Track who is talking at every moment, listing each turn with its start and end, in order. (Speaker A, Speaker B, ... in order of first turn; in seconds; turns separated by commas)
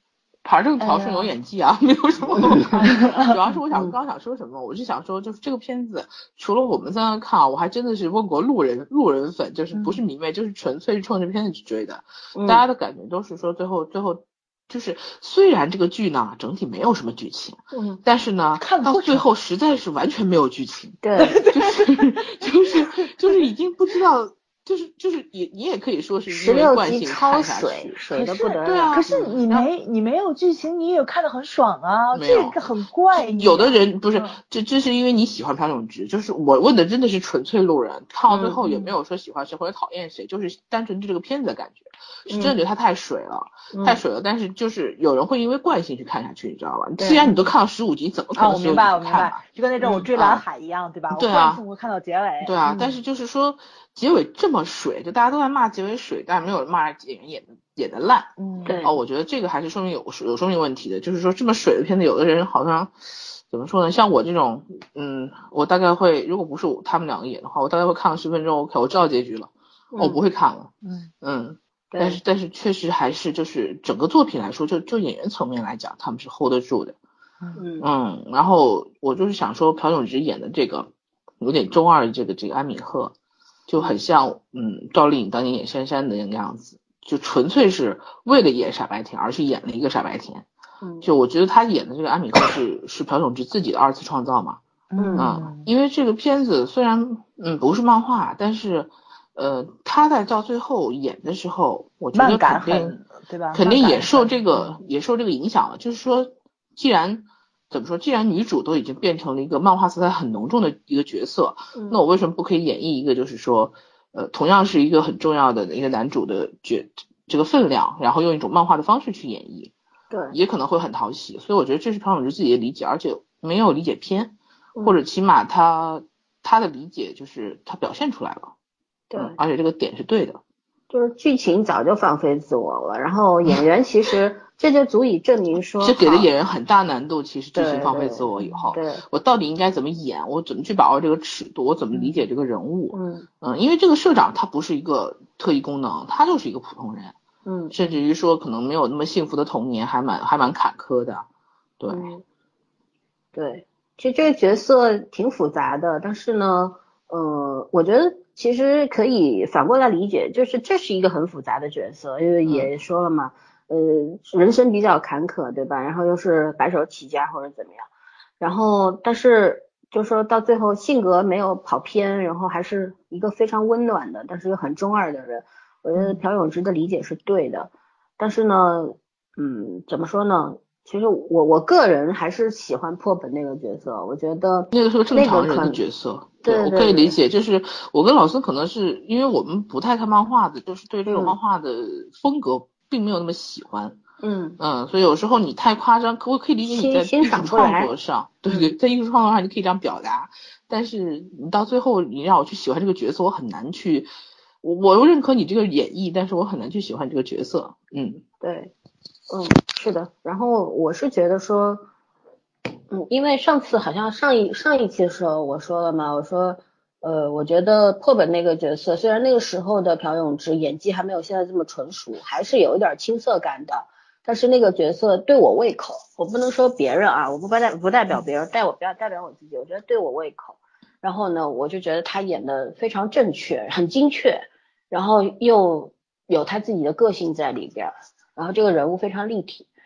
Speaker A: 0.4-27.9, Speaker B: 0.8-1.3, Speaker C: 2.3-2.8, Speaker B: 2.7-3.4, Speaker B: 9.7-10.0, Speaker C: 12.3-12.6, Speaker C: 17.7-18.0, Speaker B: 18.6-19.2, Speaker C: 21.0-21.4, Speaker B: 21.2-22.2, Speaker C: 26.3-29.6, Speaker B: 28.1-34.3, Speaker A: 28.6-29.3, Speaker A: 32.1-32.6, Speaker A: 33.1-49.4, Speaker C: 38.3-38.6, Speaker B: 38.6-38.9, Speaker C: 42.3-42.5, Speaker C: 43.7-44.0, Speaker C: 47.0-47.3, Speaker B: 48.4-52.9, Speaker A: 50.1-50.4, Speaker A: 51.1-51.6, Speaker A: 52.4-58.3, Speaker B: 58.4-58.8, Speaker C: 58.6-58.9, Speaker A: 58.8-62.9, Speaker A: 63.5-76.9, Speaker C: 69.9-70.2, Speaker B: 70.8-71.1, Speaker C: 71.9-72.2, Speaker C: 77.5-77.8, Speaker A: 77.8-80.9, Speaker A: 81.4-83.1, Speaker A: 83.7-90.4, Speaker C: 90.8-91.1, Speaker A: 91.0-94.6, Speaker B: 94.9-95.7, Speaker C: 95.0-95.3, Speaker A: 95.2-103.0, Speaker B: 102.1-104.8, Speaker A: 103.5-119.7, Speaker C: 111.7-112.0, Speaker C: 120.1-120.3, Speaker A: 120.3-128.5, Speaker C: 124.8-125.0, Speaker C: 129.1-129.3, Speaker A: 129.2-130.4, Speaker C: 130.9-136.3, Speaker A: 135.8-147.1, Speaker C: 137.6-139.0, Speaker C: 142.9-143.2, Speaker C: 147.4-147.7, Speaker A: 147.7-151.2, Speaker A: 151.8-152.1, Speaker C: 151.9-152.2, Speaker C: 153.3-167.9, Speaker A: 162.4-162.7, Speaker C: 168.4-185.8, Speaker A: 184.7-194.0, Speaker C: 186.4-187.2, Speaker C: 191.1-191.3, Speaker C: 194.2-194.6, Speaker A: 194.6-204.1, Speaker C: 196.7-197.9, Speaker A: 204.6-208.2, Speaker C: 208.4-208.7, Speaker C: 209.3-211.8, Speaker C: 212.9-239.7